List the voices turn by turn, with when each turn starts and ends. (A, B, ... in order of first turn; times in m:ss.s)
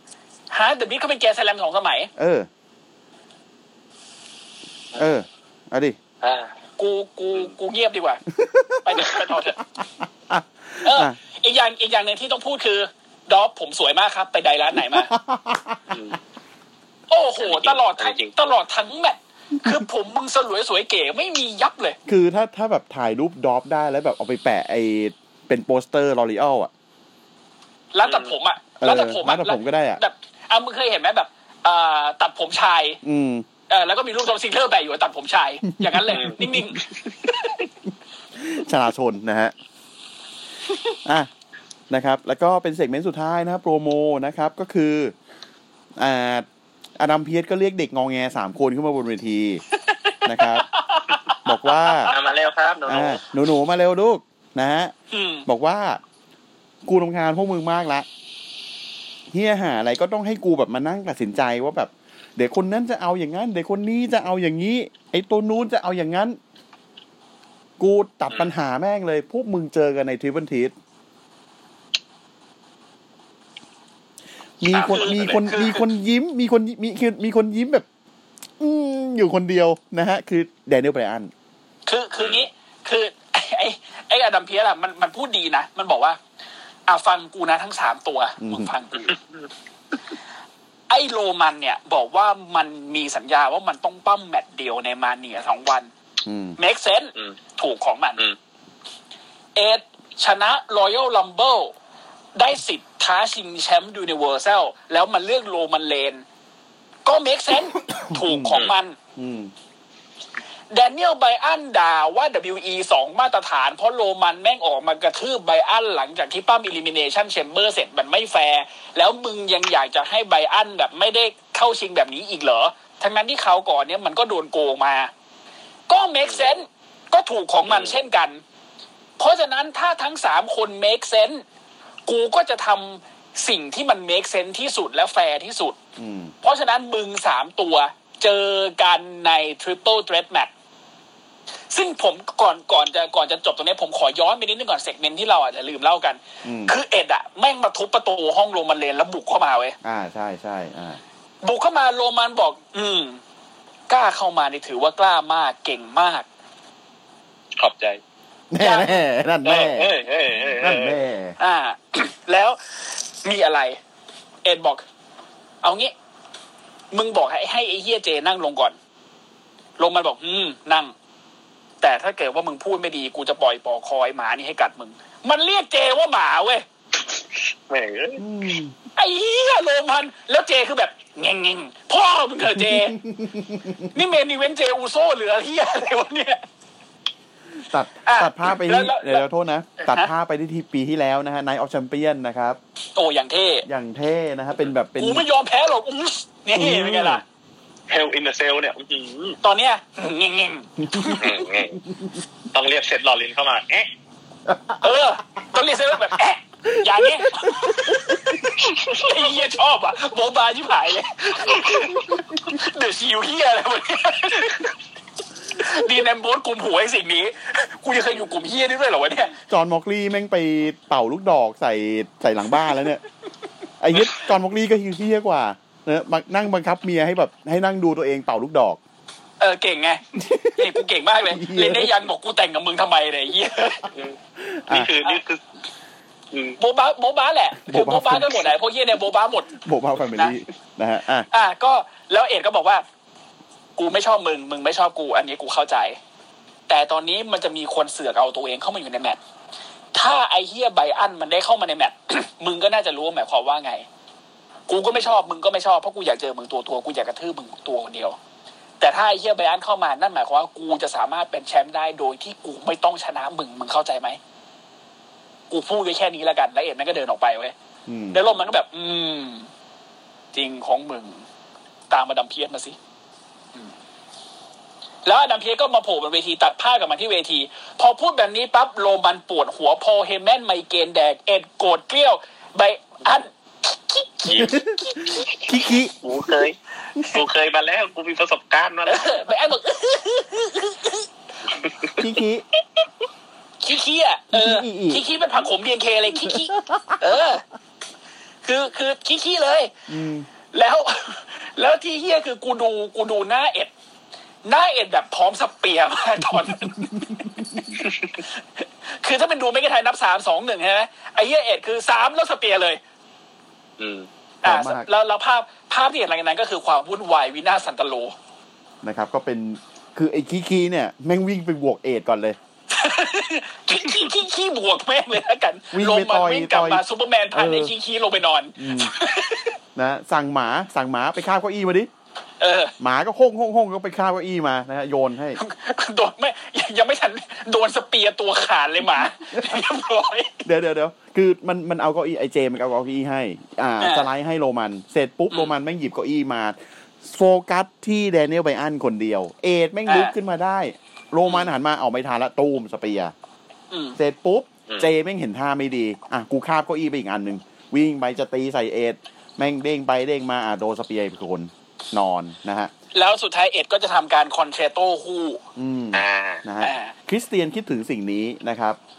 0:00.5-0:02.1 A
0:02.2-0:02.5 B
0:05.0-0:06.0 B
0:06.2-0:06.5 C
0:06.8-0:08.2 A
0:08.4-0:09.2 B
0:08.8-0:09.6 A
0:09.8-0:11.2 B
0:10.8-0:15.1 A
0:14.8-0:15.9 B
0:15.9-0:16.2 C
0:17.1-0:22.0 A
0:17.4-0:18.4 C
0:22.1-0:26.7 B
0:27.9-0:33.0 A
0:28.0-0:28.4 C
0:28.8-0:30.0 B
0:33.0-0:33.5 B
0:33.7-0:37.7 A
0:35.8-0:36.6 B
0:36.1-0:36.8 C
0:38.4-0:39.5 B
0:41.9-0:45.2 B
0:46.0-0:46.5 B
0:47.0-0:49.6 B
0:49.8-0:52.2 A
0:50.2-0:50.7 B
0:51.4-0:52.2 B
0:52.1-0:53.2 C
0:52.9-0:54.9 B
0:55.1-0:55.5 A
0:55.5-0:56.0 B
0:56.8-0:58.1 B
0:59.3-1:06.4 B
1:07.8-1:10.8 B
1:14.6-1:17.8 B
1:14.6-1:15.5 C
1:14.9-1:15.8 A
1:18.6-1:21.3 B
1:21.9-1:26.2 A
1:22.2-1:22.5 C
1:26.9-1:29.2 A
1:28.4-1:28.7 B
1:30.9-1:35.9 A
1:36.2-1:36.6 B
1:36.6-1:38.2 A
1:39.6-1:41.7 A
1:42.4-1:46.2 A
1:47.1-1:49.0 A
1:48.0-1:48.6 B
1:49.2-1:49.5 B
1:50.7-2:05.1 A
2:05.9-2:08.4 A
2:06.2-2:06.6 C
2:07.7-2:08.0 C
2:09.2-2:11.4 A
2:12.1-2:15.8 A
2:16.0-2:16.3 B
2:16.4-2:20.5 A
2:21.7-2:29.8 A
2:26.4-2:26.8 B
2:29.8-2:31.0 B
2:31.4-2:33.2 A
2:33.9-2:36.3 A
2:37.6-2:38.0 C
2:38.5-2:40.0 B
2:38.6-2:39.0 A
2:39.4-2:41.0 C
2:40.6-2:41.4 B
2:41.4-2:43.8 A
2:44.4-2:44.8 A
2:45.6-2:45.9 A
2:46.9-2:48.8 A
2:49.8-2:50.9 A
2:51.8-2:56.6 A
2:57.7-2:58.2 C
2:58.2-2:58.7 B
2:59.0-3:03.0 A
3:02.5-3:03.9 B
3:03.9-3:06.4 A
3:07.7-3:12.6 B
3:08.1-3:09.2 A
3:09.8-3:10.1 A
3:13.0-3:13.7 A
3:13.7-3:15.2 B
3:15.0-3:17.2 A
3:16.5-3:17.2 B
3:17.9-3:19.4 C
3:19.4-3:21.3 A
3:20.8-3:22.2 B
3:21.2-3:21.8 C
3:22.5-3:23.9 C
3:24.5-3:25.0 B
3:24.8-3:34.7 A
3:26.7-3:28.4 B
3:35.6-3:39.4 A
3:39.5-3:43.0 B
3:43.8-3:48.8 B
3:49.4-3:53.8 A
3:50.2-3:52.1 B
3:53.9-3:54.2 C
3:54.4-3:54.9 B
3:54.7-3:55.4 C
3:56.3-3:56.6 C
3:56.6-3:59.5 A
3:57.6-3:58.5 B
3:59.5-4:01.3 B
4:01.3-4:02.8 A
4:03.8-4:06.0 A
4:06.7-4:09.2 A
4:09.9-4:13.9 A
4:14.7-4:18.2 A
4:14.9-4:15.2 C
4:18.8-4:24.2 A
4:25.5-4:27.5 A
4:27.9-4:28.2 B
4:28.1-4:29.5 A
4:30.3-4:31.2 A
4:31.9-4:32.8 A
4:35.0-4:45.1 A
4:44.2-4:44.6 C
4:44.4-4:46.0 B
4:46.0-4:49.2 C
4:48.9-4:51.1 A
4:51.6-4:52.1 C
4:52.0-4:52.4 B
4:53.6-4:57.4 A
4:54.3-4:55.0 B
4:56.2-4:57.0 B
4:58.4-4:59.7 A
4:59.9-5:00.3 B
5:00.5-5:03.7 A
5:04.4-5:07.2 A
5:07.0-5:07.7 B
5:07.8-5:08.2 C
5:08.6-5:12.8 A
5:13.8-5:14.1 C
5:14.4-5:14.9 B
5:14.4-5:18.2 A
5:18.8-5:22.4 B
5:22.7-5:29.6 A
5:25.7-5:27.7 B
5:28.6-5:29.0 B
5:29.8-5:31.9 B
5:32.4-5:32.7 A
5:32.8-5:35.4 B
5:35.4-5:40.4 A
5:39.4-5:39.6 B
5:40.4-5:53.1 B
5:43.8-5:44.1 A
5:49.9-5:50.1 A
5:51.2-5:51.5 A
5:53.7-5:54.0 A
5:54.0-6:02.7 B
5:54.7-5:55.0 C
6:02.9-6:05.4 A
6:05.6-6:08.8 B
6:05.9-6:06.4 C
6:06.6-6:06.9 A